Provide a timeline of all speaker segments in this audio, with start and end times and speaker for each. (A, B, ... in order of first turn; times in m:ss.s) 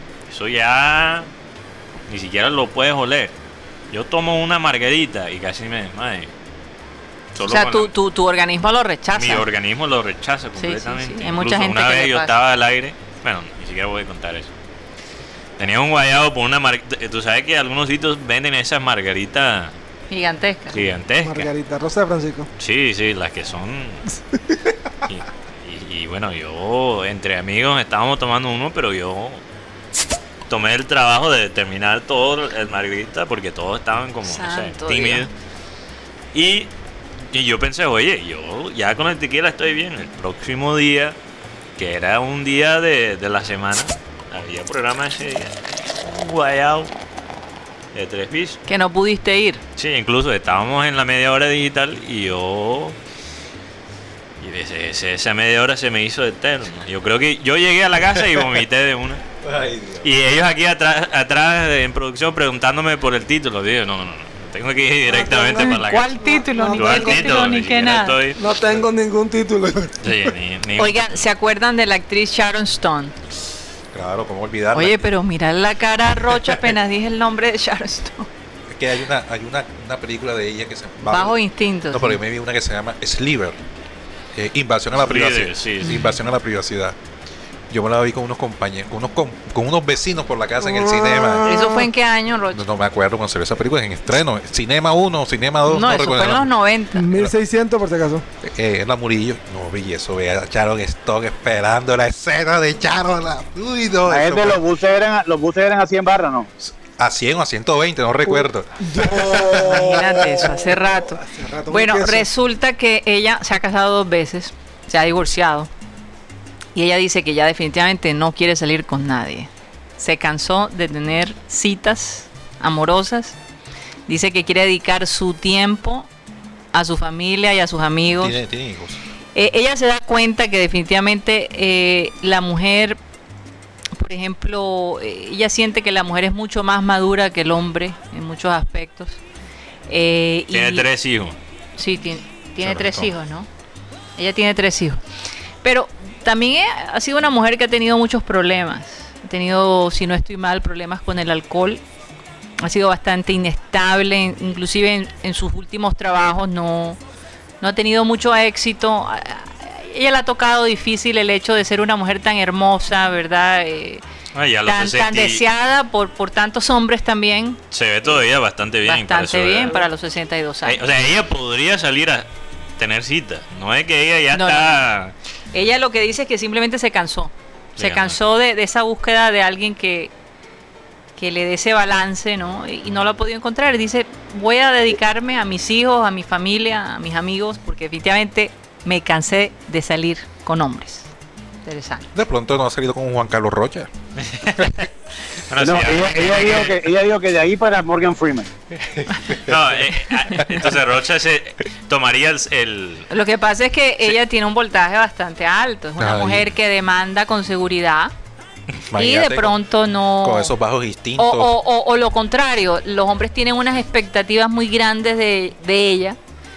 0:00.3-0:01.3 A
0:02.1-0:03.3 A
0:03.9-0:06.3 A
0:07.3-0:07.9 A
0:07.4-0:09.5 B
0:09.2-0:14.5 A
0:10.6-0:12.3 B
0:15.6-0:19.7 A
0:20.1-0:20.8 B
0:20.7-0:21.5 A
0:21.2-0:22.5 C
0:22.6-0:24.0 A
0:25.1-0:29.4 A
0:30.5-0:35.3 A
0:34.2-0:35.3 B
0:36.3-0:36.7 A
0:37.3-0:41.2 A
0:41.8-0:46.9 A
0:47.9-0:48.6 A
0:48.7-0:49.6 B
0:49.8-0:53.0 A
0:54.4-0:59.2 A
0:59.4-1:00.1 D
1:00.0-1:08.4 A
1:05.1-1:07.6 C
1:05.6-1:08.2 B
1:08.4-1:10.2 C
1:10.0-1:11.2 A
1:10.8-1:13.1 B
1:13.9-1:15.1 D
1:14.7-1:18.3 B
1:18.7-1:23.6 D
1:21.0-1:22.2 B
1:24.3-1:27.0 D
1:25.0-1:26.0 A
1:25.8-1:26.1 B
1:27.7-1:31.7 D
1:30.6-1:31.9 C
1:31.4-1:32.6 B
1:32.5-1:36.5 D
1:35.6-1:37.0 B
1:36.9-1:38.2 C
1:38.4-1:44.6 D
1:44.1-1:46.5 E
1:46.6-1:50.4 D
1:48.2-1:52.3 C
1:49.5-1:55.7 B
1:56.7-2:03.4 B
2:04.1-2:06.1 B
2:06.7-2:08.4 B
2:08.2-2:09.0 D
2:09.3-2:13.0 B
2:14.0-2:19.2 B
2:19.9-2:20.9 B
2:20.5-2:21.4 A
2:21.8-2:23.5 B
2:22.6-2:23.1 D
2:24.2-2:25.0 B
2:25.6-2:31.8 B
2:32.6-2:37.0 B
2:37.6-2:44.0 B
2:44.3-2:45.4 A
2:44.6-2:48.2 B
2:47.7-2:49.9 A
2:48.8-2:50.8 B
2:50.6-2:55.1 A
2:54.3-2:54.8 B
2:55.5-3:00.1 B
2:57.8-2:58.2 A
3:01.2-3:11.1 B
3:11.6-3:12.1 B
3:12.1-3:13.9 D
3:14.2-3:16.8 A
3:15.6-3:18.5 E
3:18.8-3:19.8 D
3:19.4-3:23.1 A
3:23.1-3:28.1 B
3:26.0-3:26.5 D
3:28.9-3:29.6 D
3:28.9-3:30.5 B
3:30.2-3:31.5 D
3:31.2-3:36.2 B